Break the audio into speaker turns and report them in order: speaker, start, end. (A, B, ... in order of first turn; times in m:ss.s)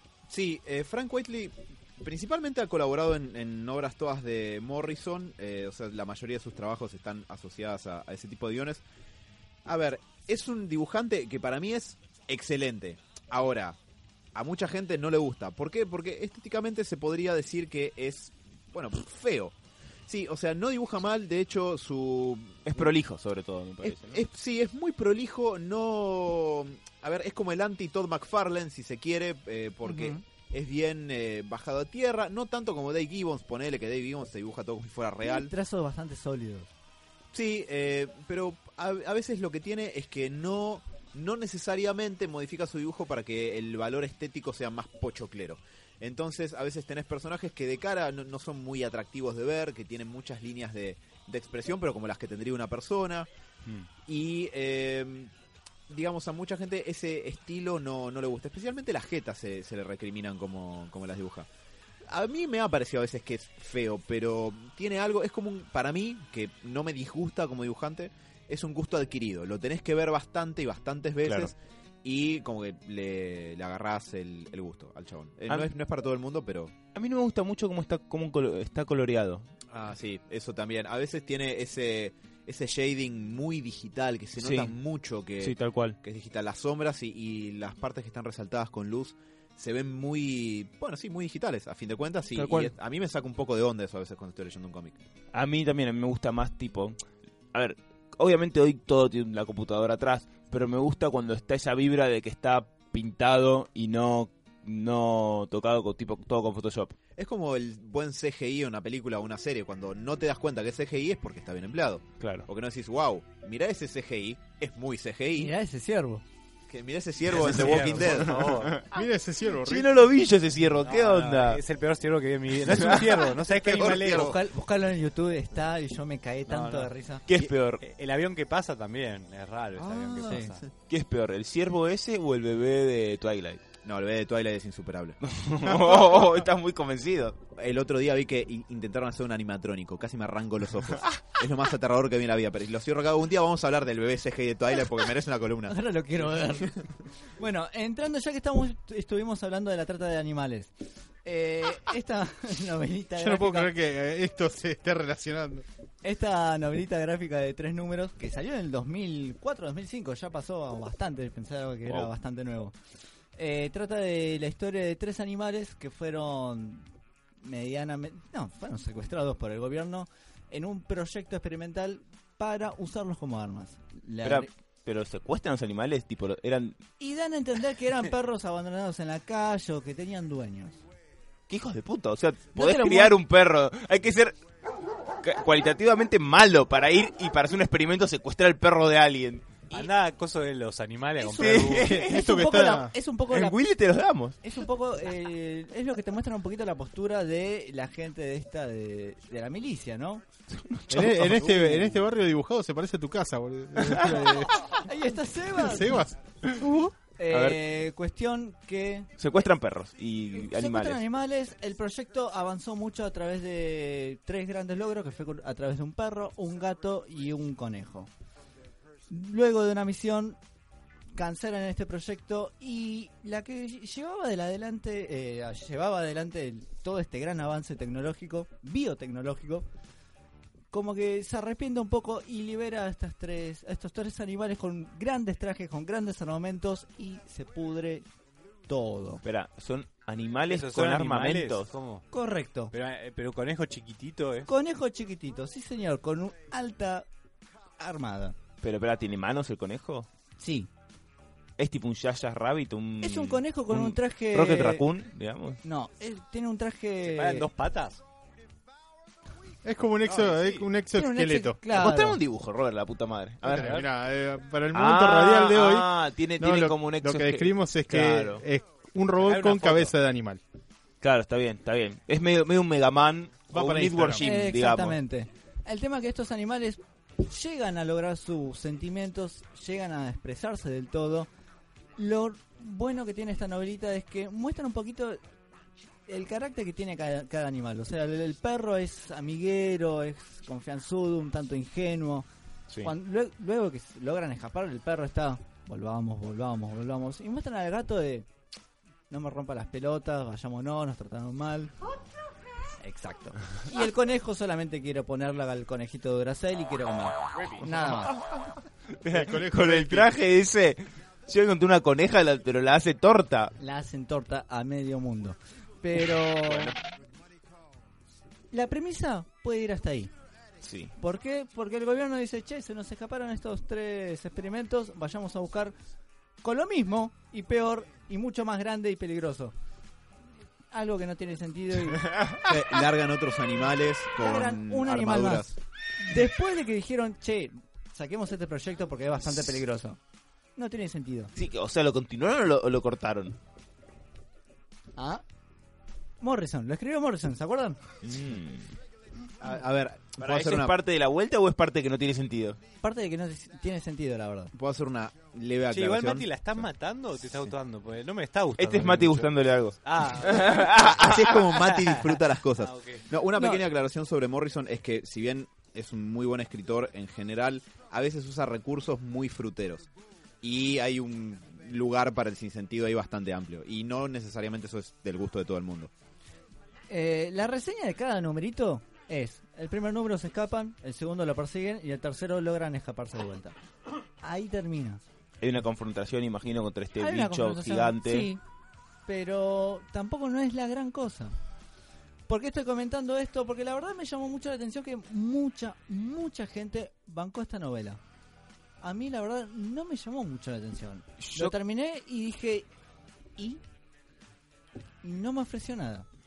0:00.3-0:08.8 A
0:09.6-0:13.8 A
0:14.3-0:19.5 A
0:20.1-0:22.9 A
0:22.7-0:24.2 B
0:23.8-0:35.5 A
0:29.8-0:30.2 C
0:35.2-0:36.7 C
0:37.3-0:53.3 A
0:54.0-0:55.3 A
0:55.9-1:01.5 A
1:02.0-1:16.7 A
1:11.2-1:11.5 B
1:16.9-1:19.5 B
1:19.7-1:35.0 A
1:24.4-1:24.7 B
1:25.4-1:26.0 B
1:32.4-1:32.7 B
1:35.3-1:37.0 B
1:37.5-1:46.9 B
1:47.2-1:55.5 A
1:52.2-1:52.5 B
1:55.3-1:56.2 C
1:56.7-1:58.5 A
1:57.3-1:58.8 D
1:57.4-1:58.9 B
1:58.8-1:59.9 E
1:59.6-2:01.6 B
2:00.8-2:04.3 D
2:02.7-2:03.2 B
2:03.4-2:04.4 A
2:03.8-2:07.2 C
2:06.5-2:06.9 D
2:07.3-2:07.8 B
2:07.8-2:10.6 D
2:09.8-2:10.7 A
2:10.2-2:10.5 C
2:10.9-2:13.6 B
2:13.8-2:15.2 A
2:15.2-2:17.4 B
2:17.6-2:25.8 A
2:25.7-2:26.8 C
2:27.4-2:30.7 C
2:31.2-2:33.7 C
2:33.2-2:35.6 E
2:36.0-2:42.7 C
2:43.4-2:46.9 C
2:47.4-2:54.5 C
2:54.2-2:56.8 B
2:57.0-3:00.8 C
3:01.5-3:04.4 B
3:02.5-3:03.2 C
3:05.2-3:09.8 B
3:09.7-3:12.0 D
3:11.2-3:12.7 B
3:11.9-3:12.9 E
3:11.9-3:13.6 C
3:13.3-3:14.4 B
3:14.4-3:20.2 C
3:20.5-3:22.0 B
3:20.9-3:24.7 E
3:24.7-3:26.0 C
3:25.6-3:26.2 E
3:26.4-3:26.7 B
3:27.2-3:29.1 C
3:27.3-3:27.6 B
3:29.2-3:31.0 B
3:30.4-3:38.1 C
3:39.1-3:40.4 C
3:41.1-3:49.7 C
3:50.7-3:58.0 C
3:58.7-3:59.2 C
3:59.2-4:01.7 B
4:00.4-4:02.0 D
4:02.1-4:02.7 C
4:02.7-4:04.5 D
4:04.4-4:07.1 C
4:07.8-4:08.4 C
4:08.6-4:10.1 B
4:10.4-4:10.7 C
4:11.6-4:15.6 B
4:13.0-4:14.8 C
4:15.6-4:17.4 C
4:17.0-4:18.0 D
4:19.6-4:21.6 E
4:20.0-4:20.7 D
4:20.9-4:22.2 C
4:21.7-4:23.8 B
4:23.4-4:30.4 E
4:23.5-4:23.9 D
4:24.7-4:28.4 B
4:29.2-4:29.9 D
4:31.0-4:35.0 B
4:33.5-4:34.2 E
4:34.2-4:41.3 C
4:42.0-4:45.2 C
4:46.1-4:52.3 C
4:52.8-4:58.3 C
4:59.1-5:01.7 C
5:02.8-5:08.2 C
5:07.6-5:08.5 B
5:09.0-5:13.5 B
5:09.1-5:10.1 E
5:13.6-5:16.8 C
5:16.4-5:16.8 B
5:18.5-5:20.1 C
5:20.6-5:20.9 B
5:21.0-5:25.7 C
5:26.4-5:29.5 C
5:30.7-5:32.1 C
5:32.0-5:32.4 B
5:32.4-5:35.5 A
5:34.2-5:40.0 C
5:40.6-5:41.3 C
5:41.4-5:43.4 B
5:45.0-5:45.2 C
5:46.2-5:47.8 C
5:48.0-5:48.7 B
5:49.4-5:50.8 A
5:50.2-5:52.6 B
5:52.8-5:54.5 C
5:54.5-5:56.3 A
5:55.7-6:00.8 D
5:58.6-6:01.5 B
6:00.7-6:09.9 A
6:01.7-6:03.1 D
6:03.4-6:03.6 C
6:10.4-6:15.9 A
6:16.9-6:23.6 C
6:24.2-6:25.0 C
6:25.4-6:28.3 B
6:27.0-6:28.4 C
6:29.1-6:31.3 C
6:32.3-6:38.0 C
6:38.8-6:42.7 C
6:41.2-6:41.5 B
6:45.0-6:46.0 C